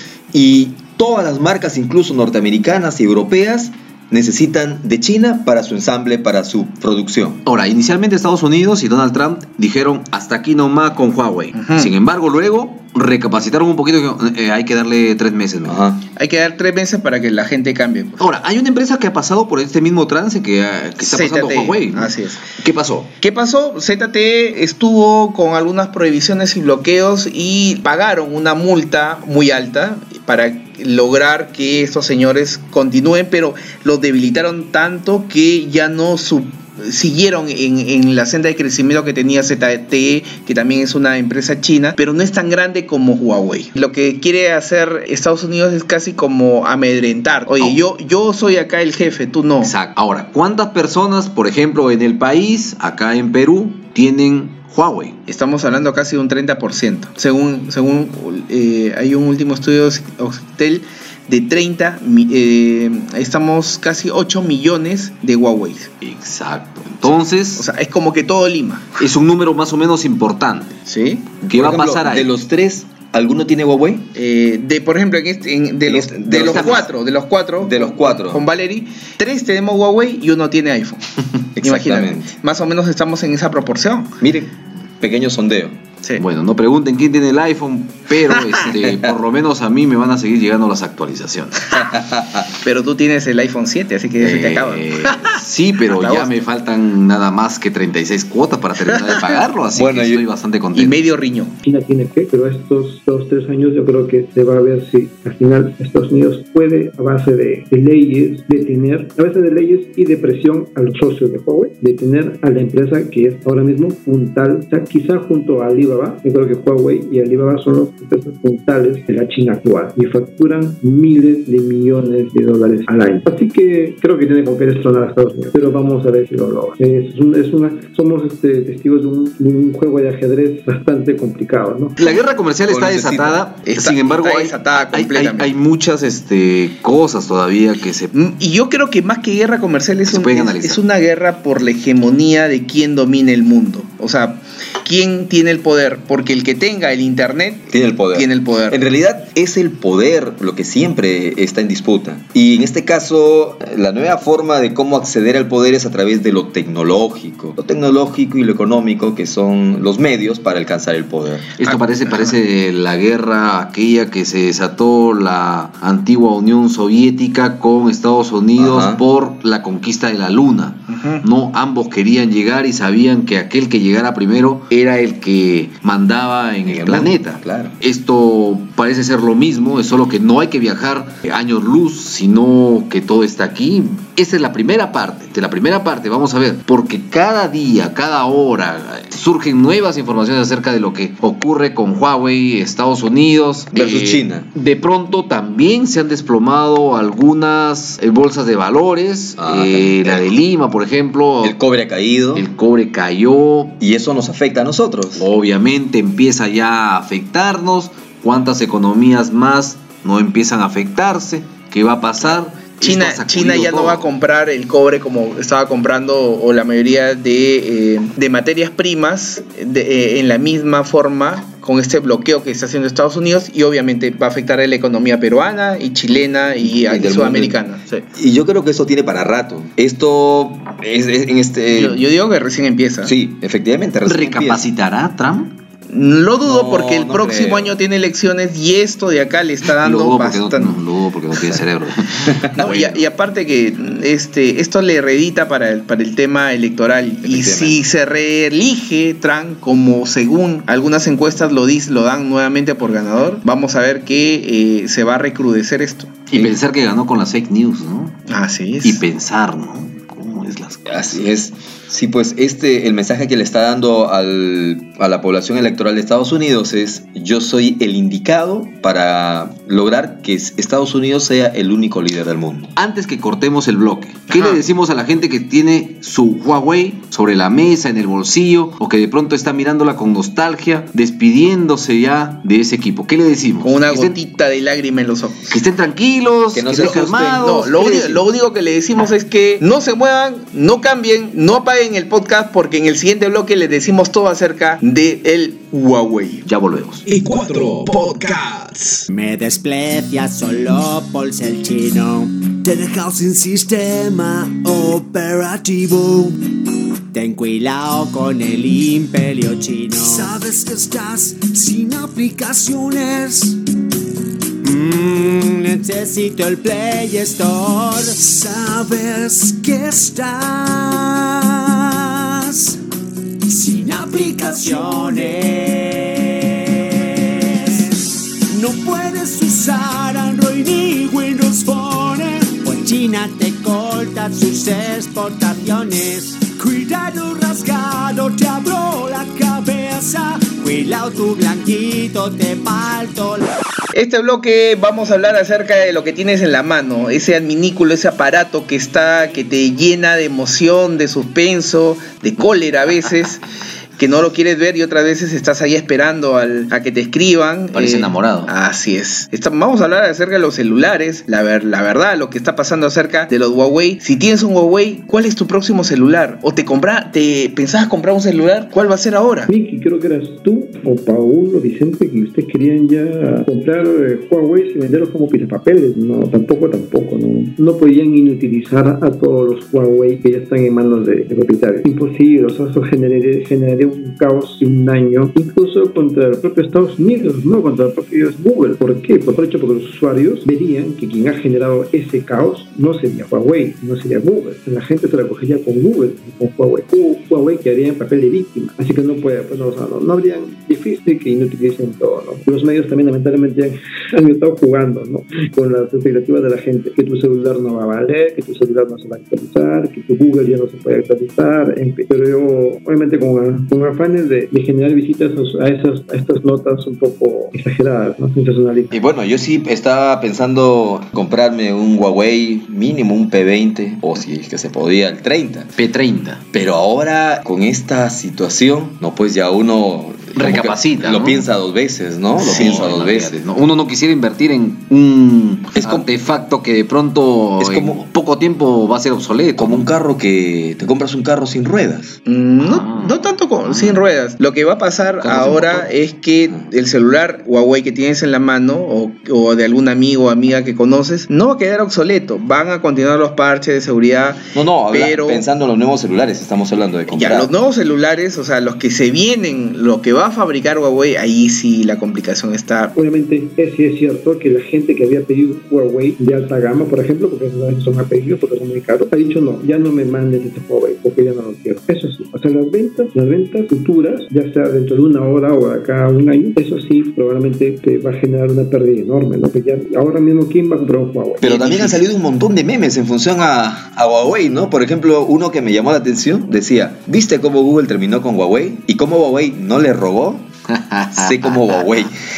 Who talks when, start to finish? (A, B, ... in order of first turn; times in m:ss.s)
0:00.3-0:07.4 A
0:07.4-0:15.8 B
0:11.5-0:11.9 C
0:15.6-0:16.0 A
0:16.2-0:18.2 C
0:18.2-0:23.1 B
0:21.0-0:22.4 C
0:23.2-0:49.7 C
0:49.6-0:55.2 B
0:55.3-1:05.9 C
1:06.0-1:07.7 B
1:07.6-1:08.9 C
1:09.0-1:10.8 B
1:10.9-1:11.3 C
1:11.4-1:14.1 A
1:11.5-1:12.3 B
1:14.2-1:21.0 C
1:15.9-1:16.9 A
1:16.4-1:16.8 B
1:17.6-1:18.4 A
1:21.6-1:22.3 A
1:21.6-1:24.2 C
1:24.2-1:25.8 A
1:26.2-1:31.6 B
1:28.8-1:29.1 A
1:31.8-1:32.5 A
1:32.6-1:35.2 C
1:34.2-1:41.0 B
1:35.9-1:36.4 C
1:39.7-1:40.2 A
1:40.8-1:41.6 C
1:41.6-2:11.9 D
2:12.0-2:18.1 B
2:12.7-2:13.4 A
2:13.7-2:15.5 C
2:18.1-2:28.8 C
2:20.1-2:20.8 B
2:27.7-2:41.6 A
2:41.6-3:21.6 B
2:48.6-2:49.0 A
2:50.9-2:51.2 C
2:56.6-2:57.8 A
3:13.7-3:14.5 A
3:19.4-3:20.3 A
3:21.4-3:22.5 A
3:22.4-3:23.8 B
3:23.8-3:25.3 A
3:25.2-3:34.1 B
3:32.8-3:48.0 C
3:46.6-3:47.6 A
3:48.1-3:52.0 A
3:51.7-3:53.1 C
3:53.0-3:54.6 A
3:54.0-3:55.6 B
3:55.9-4:00.8 C
3:56.4-3:57.8 A
3:59.8-4:03.0 B
4:02.2-4:02.7 A
4:02.6-4:16.2 C
4:07.2-4:07.8 A
4:16.3-4:18.2 B
4:18.3-4:19.0 C
4:18.8-4:21.2 B
4:20.9-4:32.7 A
4:32.8-4:44.2 B
4:34.3-4:34.6 C
4:43.6-4:45.6 C
4:45.5-4:48.2 B
4:46.5-4:47.3 A
4:46.8-4:56.4 C
4:56.5-4:57.1 B
4:57.1-4:59.1 E
4:59.1-5:06.4 F
5:07.1-5:13.6 F
5:14.6-5:22.8 F
5:23.5-5:43.5 F
5:43.9-5:53.4 C
5:54.0-6:09.5 C
5:57.7-5:58.5 B
6:09.5-6:59.0 D
6:58.9-7:05.7 A
7:05.8-7:06.5 B
7:06.5-7:13.3 A
7:10.4-7:11.5 B
7:12.4-7:19.9 B
7:15.8-7:16.1 A
7:17.6-7:18.0 A
7:19.6-7:22.2 A
7:22.3-7:35.4 C
7:22.6-7:24.0 B
7:25.2-7:25.9 B
7:34.6-7:37.5 A
7:37.1-7:42.9 C
7:43.0-8:01.8 D
8:01.4-8:10.5 A
8:10.7-8:11.6 B
8:11.1-8:12.2 A